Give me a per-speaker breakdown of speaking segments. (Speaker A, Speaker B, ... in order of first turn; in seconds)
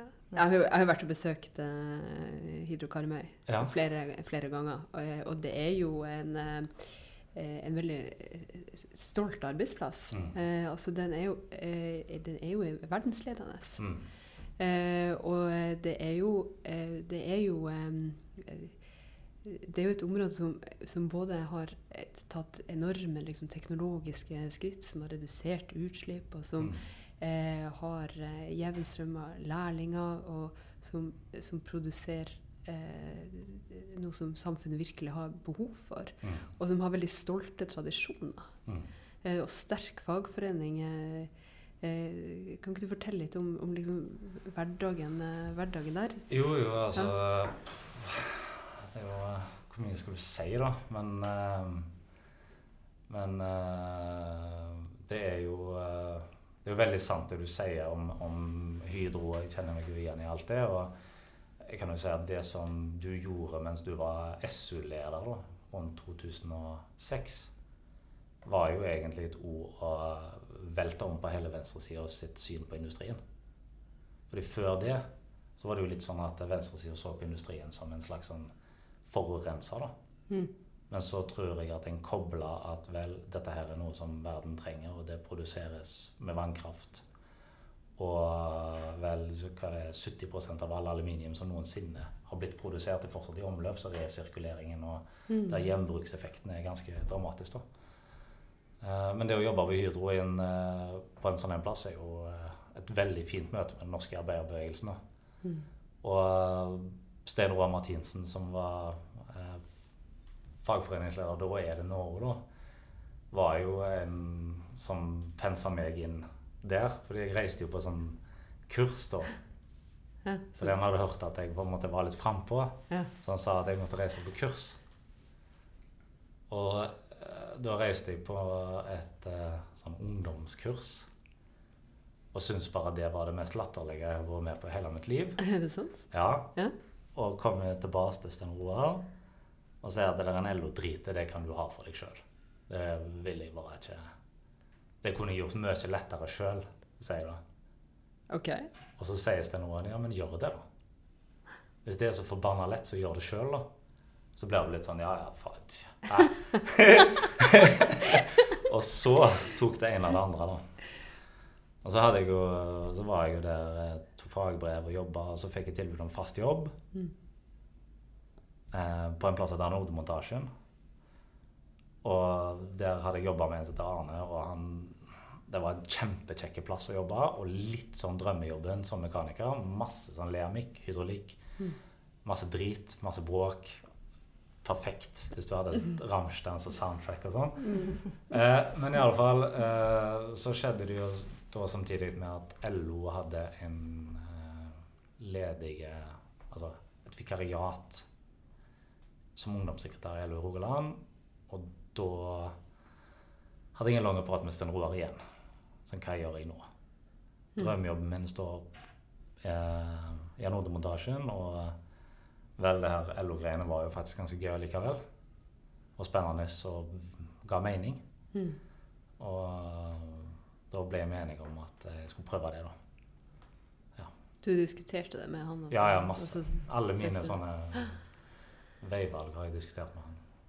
Speaker A: 0.3-13.8, 14.6-18.7, 19.4-38.5, 39.2-46.3, 95.3-95.6, 120.2-120.7, 135.4-136.7, 148.3-148.7, 187.6-188.0, 224.4-227.9
Speaker B: 3.5-3.7, 13.8-14.1, 36.2-36.5, 46.3-51.9, 53.1-60.9, 61.6-67.5, 68.5-73.2, 74.3-75.0, 75.6-78.5, 79.0-79.9, 80.9-87.0, 88.0-97.6, 98.8-105.0, 106.0-109.7, 110.6-112.5, 113.3-119.3, 120.5-124.8, 126.5-131.1, 132.3-135.4, 136.1-136.5, 137.1-139.1, 139.8-144.1, 145.0-147.4, 149.0-150.7, 151.8-153.7, 154.4-160.6, 161.8-166.7, 168.7-170.5, 172.0-181.4, 182.2-183.8, 184.6-198.1, 199.4-202.6, 203.7-205.2, 205.9-206.7, 207.6-208.7, 209.4-211.8, 212.6-215.0, 216.0-218.0, 219.2-222.7, 225.7-228.0, 228.8-230.2